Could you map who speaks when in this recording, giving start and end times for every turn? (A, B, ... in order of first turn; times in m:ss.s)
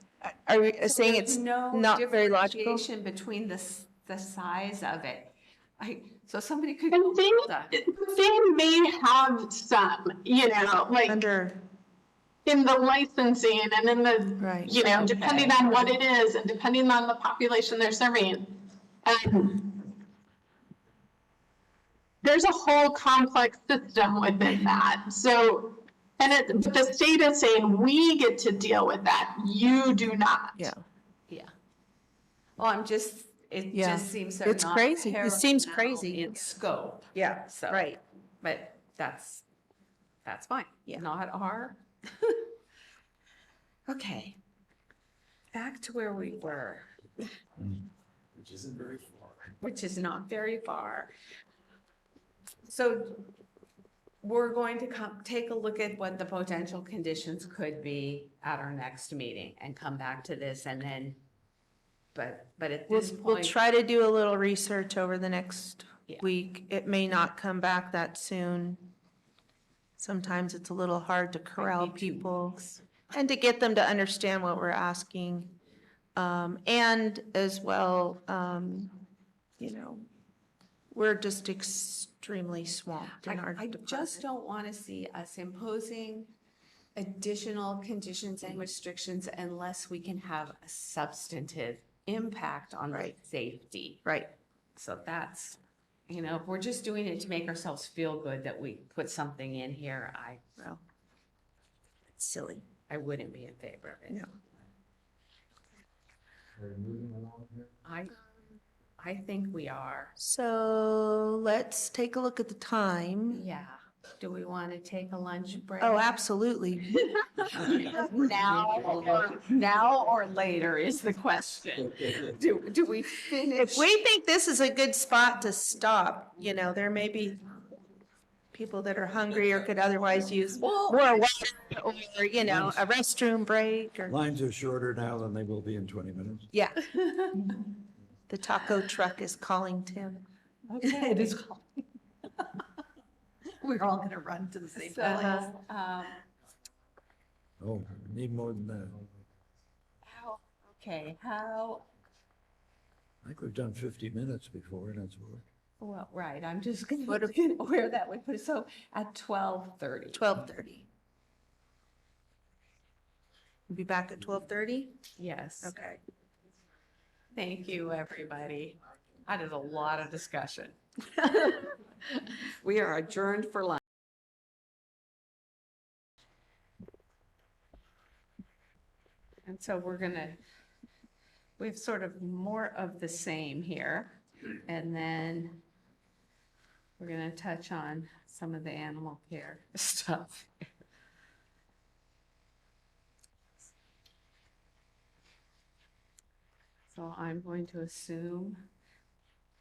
0:00.3-0:02.8 A
0:00.8-0:07.8 B
0:06.9-0:11.2 C
0:11.1-0:11.6 A
0:12.5-0:19.8 C
0:14.4-0:14.7 A
0:14.7-0:16.0 B
0:22.2-0:30.6 C
0:30.6-0:30.8 A
0:32.6-0:39.4 B
0:33.7-0:36.3 A
0:37.2-0:38.0 A
0:40.2-0:42.5 B
0:43.9-0:44.4 B
0:45.5-0:46.9 B
0:49.6-0:51.1 B
0:52.7-0:53.3 B
0:54.2-1:01.2 B
1:02.1-1:03.6 B
1:02.9-1:08.9 A
1:10.0-1:12.6 A
1:11.6-1:12.8 B
1:13.1-1:15.6 A
1:16.2-1:19.0 A
1:19.6-1:20.0 A
1:20.9-1:24.2 A
1:23.1-1:26.3 B
1:27.0-1:34.1 B
1:34.8-1:40.4 B
1:42.1-1:42.6 A
1:42.9-1:44.3 B
1:47.8-1:48.2 B
1:49.0-1:50.2 B
1:50.2-1:53.4 A
1:53.3-1:56.1 B
1:55.8-1:57.0 A
1:56.9-2:03.9 B
2:03.6-2:07.4 A
2:08.5-2:14.2 A
2:10.6-2:11.2 B
2:12.4-2:12.8 D
2:14.1-2:16.5 D
2:16.5-2:16.8 A
2:16.8-2:17.5 B
2:18.3-2:20.2 A
2:20.7-2:21.8 E
2:20.8-2:21.4 B
2:23.6-2:25.5 E
2:24.8-2:26.2 B
2:25.2-2:25.5 A
2:27.6-2:29.1 D
2:30.0-2:31.9 B
2:33.2-2:35.4 D
2:35.8-2:40.3 B
2:37.1-2:37.4 A
2:40.1-2:40.9 A
2:43.7-2:45.0 A
2:45.2-2:45.8 B
2:45.6-2:46.0 A
2:47.4-2:53.8 B
2:59.5-3:00.4 B
3:01.6-3:05.6 B
3:07.0-3:10.6 B
3:16.9-3:18.6 B